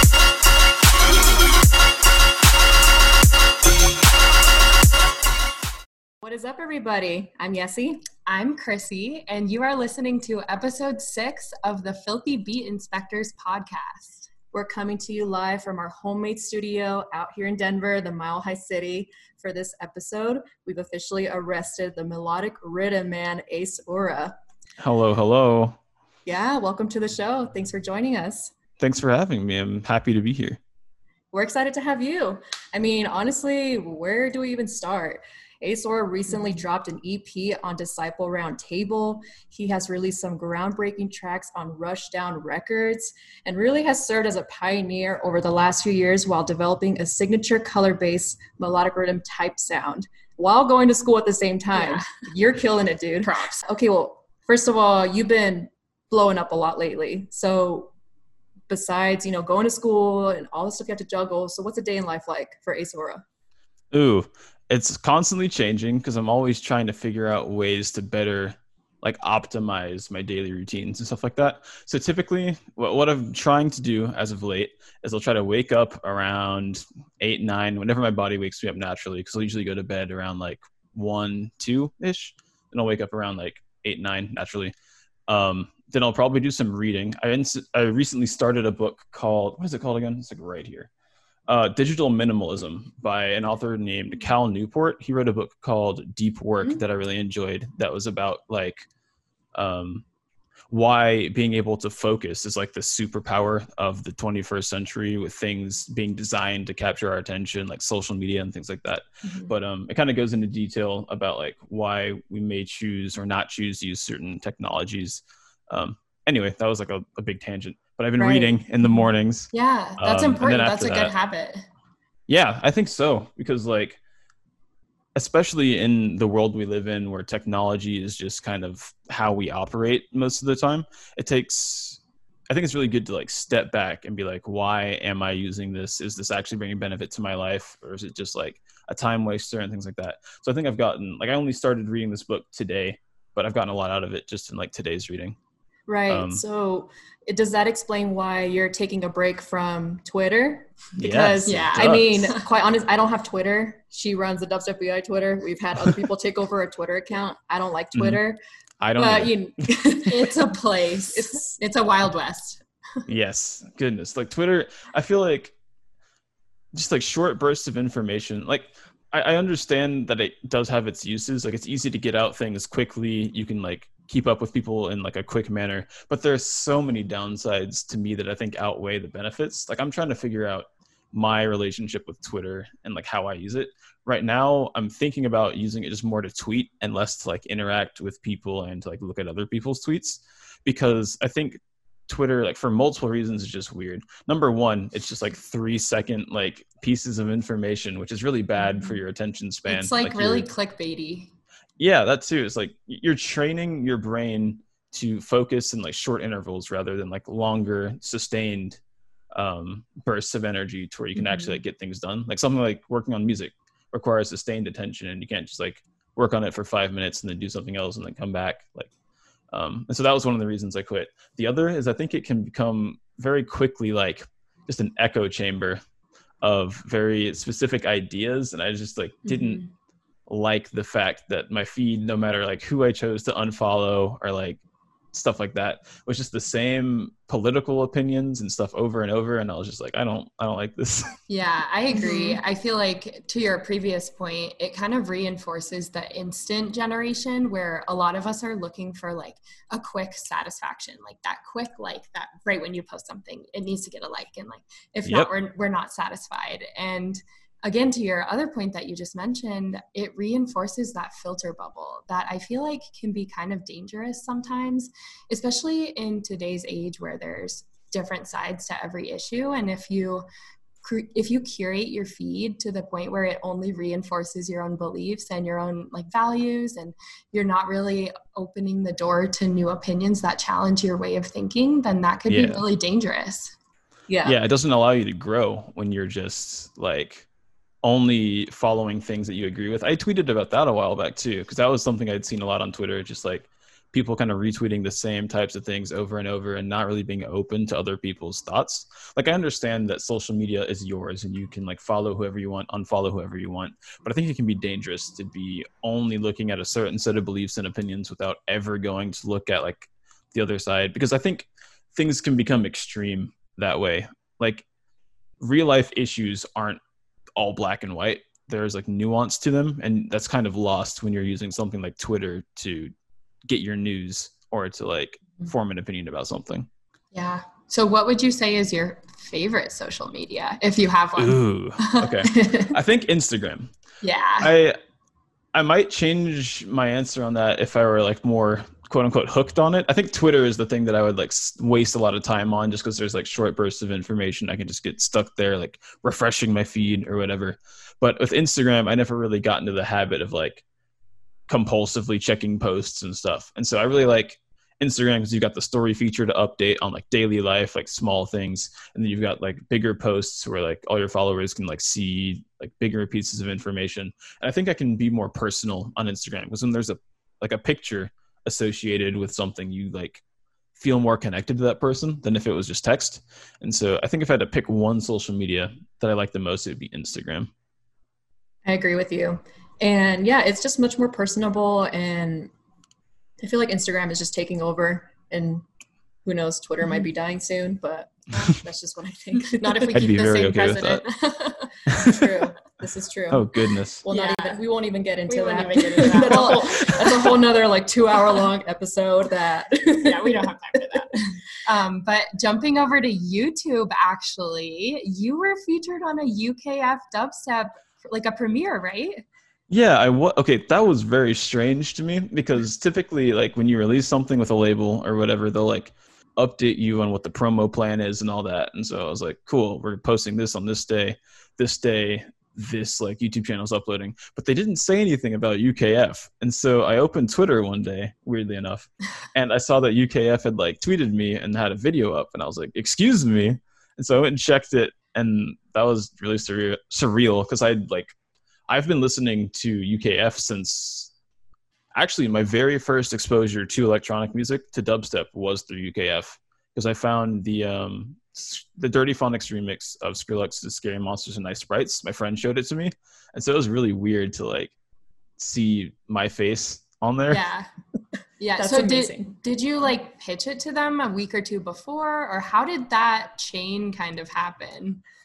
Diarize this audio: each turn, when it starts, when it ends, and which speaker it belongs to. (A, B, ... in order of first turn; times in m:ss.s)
0:06.2-0:08.0 A
0:08.3-0:14.3 B
0:14.5-0:24.4 A
0:24.8-0:25.8 C
0:26.3-0:28.5 A
0:28.8-0:30.6 C
0:31.3-0:57.9 A
0:51.7-0:52.2 B
0:53.2-0:53.6 B
0:58.7-1:03.2 A
1:03.9-1:24.7 C
1:25.3-1:30.9 C
1:31.5-1:38.9 C
1:39.5-1:40.0 C
1:40.7-2:01.1 C
1:59.5-2:01.7 B
2:02.3-2:04.0 C
2:05.2-2:12.0 C
2:12.5-2:25.4 C
2:25.9-2:38.4 A
2:26.1-2:26.4 C
2:31.0-2:32.1 C
2:31.5-2:32.4 B
2:38.0-2:38.2 C
2:38.8-2:39.5 C
2:39.0-2:40.3 A
2:40.1-2:42.6 B
2:41.1-2:41.6 A
2:43.1-2:45.5 C
2:46.7-3:20.5 C
3:19.7-3:21.3 B
3:21.8-3:28.8 C
3:29.3-3:38.9 C
3:31.2-3:31.6 B
3:39.5-3:45.8 C
3:46.4-3:49.6 C
3:50.3-3:54.6 C
3:55.1-4:01.2 C
4:01.3-4:30.2 B
4:01.9-4:02.4 A
4:30.8-4:43.6 B
4:42.3-4:42.6 C
4:44.1-4:44.4 A
4:44.2-4:47.3 C
4:47.8-5:14.6 C
5:15.4-5:16.8 C
5:17.4-5:22.9 C
5:23.4-5:26.7 C
5:27.1-5:32.1 B
5:31.2-5:33.7 C
5:32.3-5:32.7 A
5:34.0-5:34.5 B
5:34.4-5:34.8 C
5:35.5-5:50.6 C
5:51.5-6:10.2 C
6:10.8-6:17.5 C
6:18.6-6:22.5 A
6:23.4-6:25.6 A
6:26.2-6:30.0 A
6:29.4-6:31.7 B
6:29.9-6:31.0 C
6:31.9-6:33.5 A
6:31.9-6:32.3 C
6:33.3-6:34.0 C
6:34.0-6:41.0 A
6:34.1-6:34.6 B
6:35.3-6:37.4 B
6:40.0-6:49.2 B
6:49.7-7:18.1 C
7:18.7-7:21.1 C
7:22.0-7:34.7 C
7:35.4-7:37.4 C
7:37.3-7:37.7 B
7:38.4-7:45.0 B
7:38.6-7:39.4 A